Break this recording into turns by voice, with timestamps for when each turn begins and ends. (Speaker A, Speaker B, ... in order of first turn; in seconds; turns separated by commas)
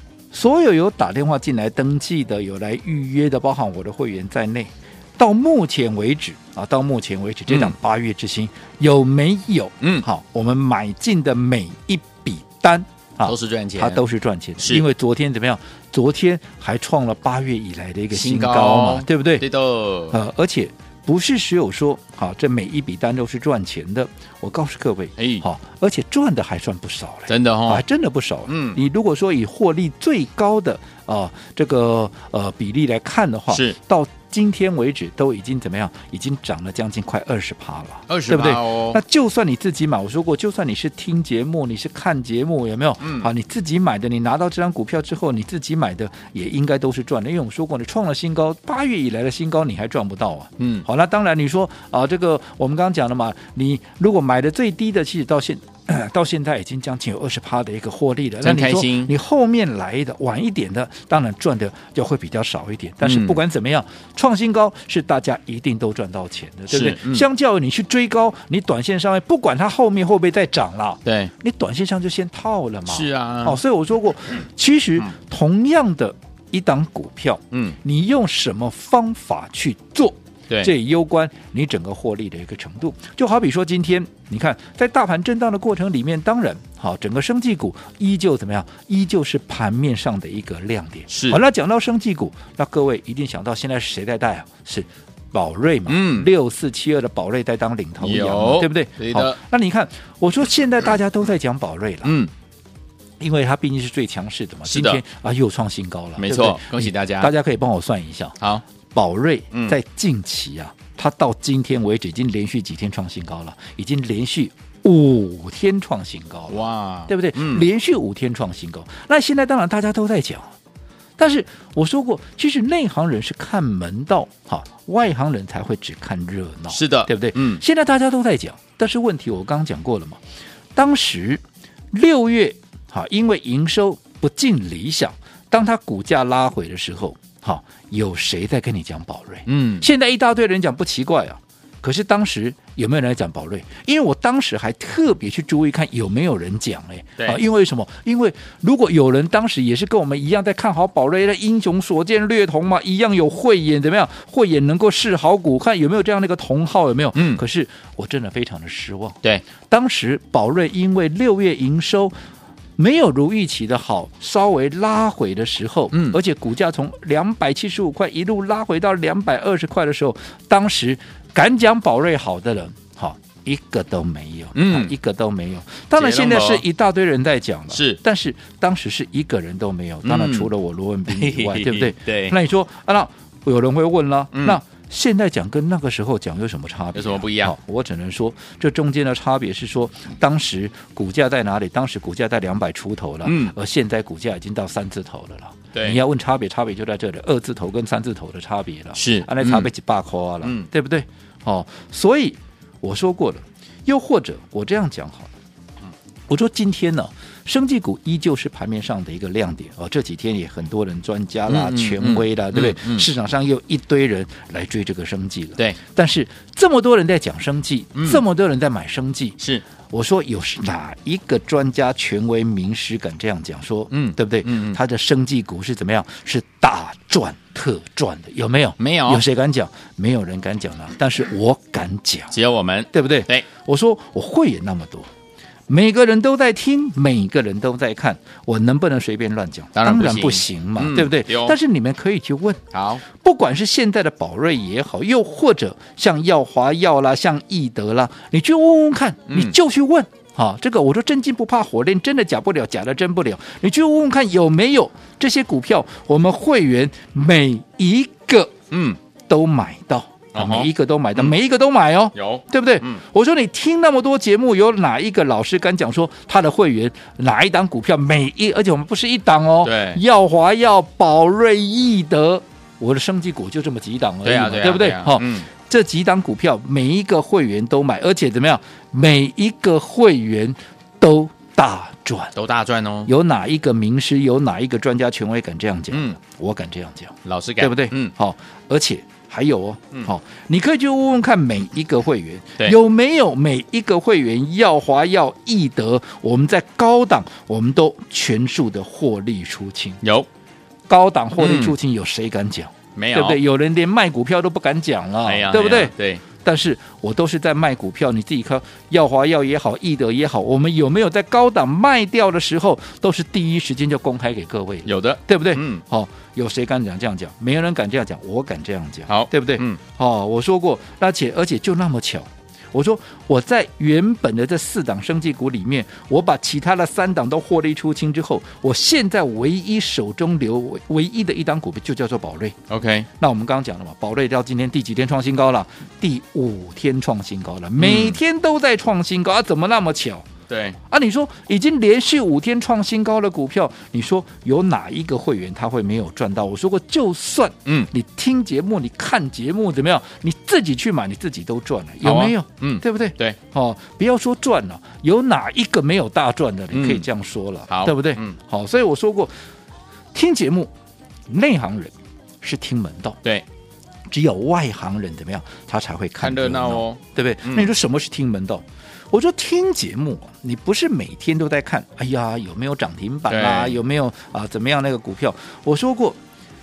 Speaker A: 0.3-19.4, Speaker B: 7.5-7.7, Speaker B: 13.2-14.0, Speaker B: 14.6-14.8, Speaker B: 18.1-20.1, Speaker A: 20.1-102.2, Speaker B: 25.2-25.4, Speaker B: 27.3-27.8, Speaker B: 28.5-28.8, Speaker B: 33.5-33.8, Speaker B: 38.1-39.0, Speaker B: 43.0-43.3, Speaker B: 50.6-50.8, Speaker B: 58.4-59.1, Speaker B: 63.0-63.4, Speaker B: 66.7-67.2, Speaker B: 71.0-71.3, Speaker B: 72.9-73.6, Speaker B: 91.1-91.4, Speaker B: 95.9-96.3, Speaker B: 98.0-99.4, Speaker B: 102.0-102.3, Speaker A: 103.2-108.4, Speaker B: 104.7-105.0, Speaker B: 106.2-107.3, Speaker A: 108.9-120.5, Speaker B: 116.5-117.6, Speaker A: 121.2-130.2, Speaker B: 126.7-127.6, Speaker A: 130.7-162.1, Speaker B: 139.5-139.9, Speaker B: 157.1-157.4, Speaker A: 162.8-205.3, Speaker B: 165.9-166.2, Speaker B: 174.5-174.9, Speaker B: 175.9-176.6, Speaker B: 177.7-178.0, Speaker B: 180.0-180.5, Speaker B: 181.1-182.3, Speaker B: 184.3-184.6, Speaker B: 186.9-187.5, Speaker B: 193.2-193.5, Speaker B: 195.7-196.0, Speaker B: 198.9-199.7, Speaker B: 200.4-200.7, Speaker A: 206.3-219.4, Speaker B: 211.5-213.1, Speaker B: 217.9-218.2, Speaker A: 219.9-232.3, Speaker B: 223.9-224.8, Speaker B: 228.8-229.2, Speaker B: 232.3-233.4, Speaker A: 232.9-235.1, Speaker A: 235.7-258.6, Speaker B: 239.7-241.6, Speaker B: 242.7-243.0, Speaker B: 249.3-249.6, Speaker B: 258.7-259.0, Speaker A: 259.3-282.3, Speaker B: 260.3-261.3, Speaker B: 262.1-263.0, Speaker B: 269.6-270.0, Speaker B: 274.2-275.5, Speaker B: 282.3-283.1, Speaker A: 283.1-300.0, Speaker B: 285.9-286.2, Speaker B: 287.2-288.1, Speaker B: 300.0-300.3, Speaker A: 300.9-332.6, Speaker B: 301.4-301.8, Speaker B: 302.9-303.4, Speaker B: 305.2-306.2, Speaker B: 314.8-315.8, Speaker B: 319.1-319.8, Speaker B: 332.7-333.1, Speaker A: 333.2-340.2, Speaker B: 337.8-338.2, Speaker B: 340.5-340.8, Speaker A: 340.9-359.3, Speaker B: 352.0-353.4, Speaker B: 356.7-357.1, Speaker B: 357.7-358.4, Speaker A: 360.1-360.7, Speaker A: 361.3-363.2, Speaker A: 364.1-376.2, Speaker B: 366.2-367.7, Speaker B: 373.3-373.8